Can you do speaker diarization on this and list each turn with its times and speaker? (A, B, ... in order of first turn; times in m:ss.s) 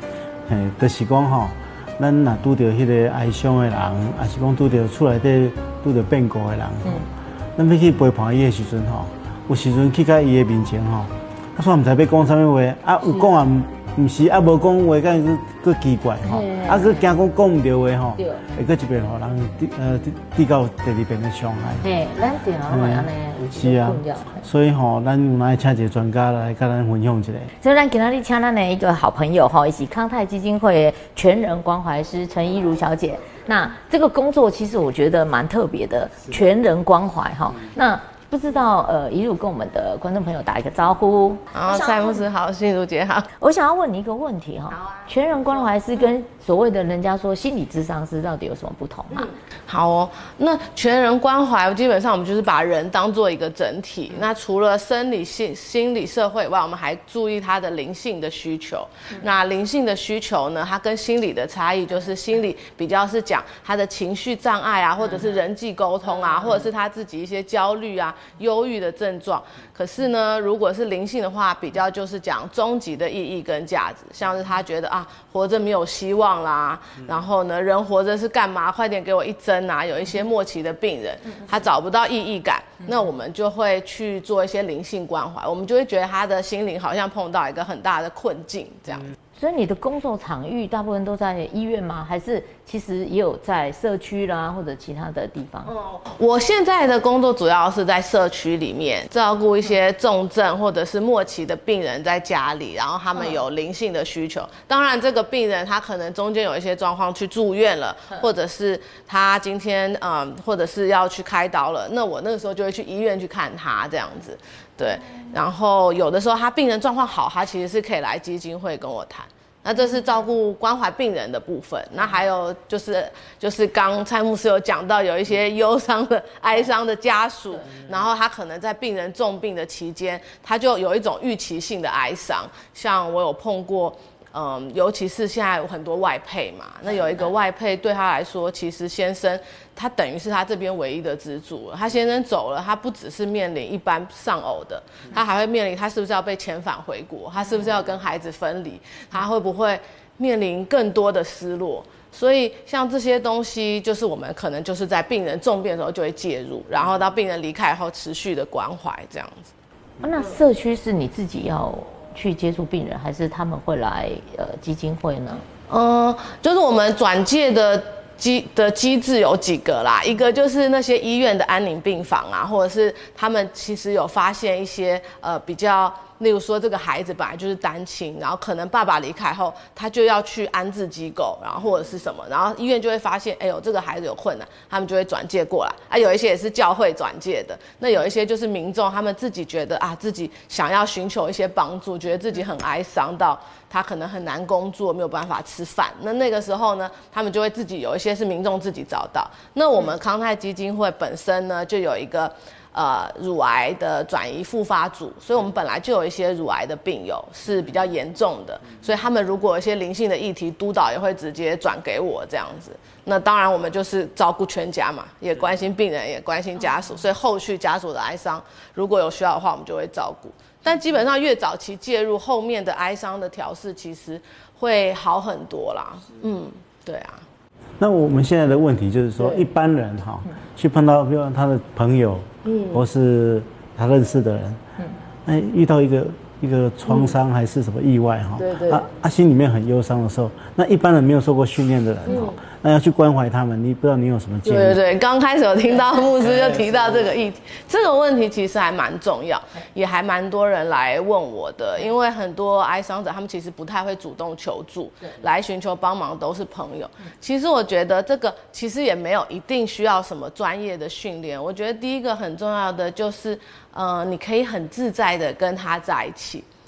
0:00.5-0:21.8 A
0:16.2-0:17.0 B
0:18.2-0:18.4 B
0:21.8-0:24.4 B
0:22.7-0:27.5 A
0:27.6-0:42.2 B
0:41.5-0:43.3 C
0:43.4-0:49.3 B
0:44.8-0:45.7 C
0:49.1-1:29.1 C
1:29.4-1:35.7 B
1:35.7-2:39.5 C
2:40.0-2:45.4 B
2:45.7-3:47.2 C
3:47.8-3:54.6 A
3:49.2-3:49.5 C
3:52.4-3:52.8 C
3:55.3-4:04.8 A
3:58.4-3:58.8 C
4:02.1-4:02.4 C
4:04.4-4:26.5 C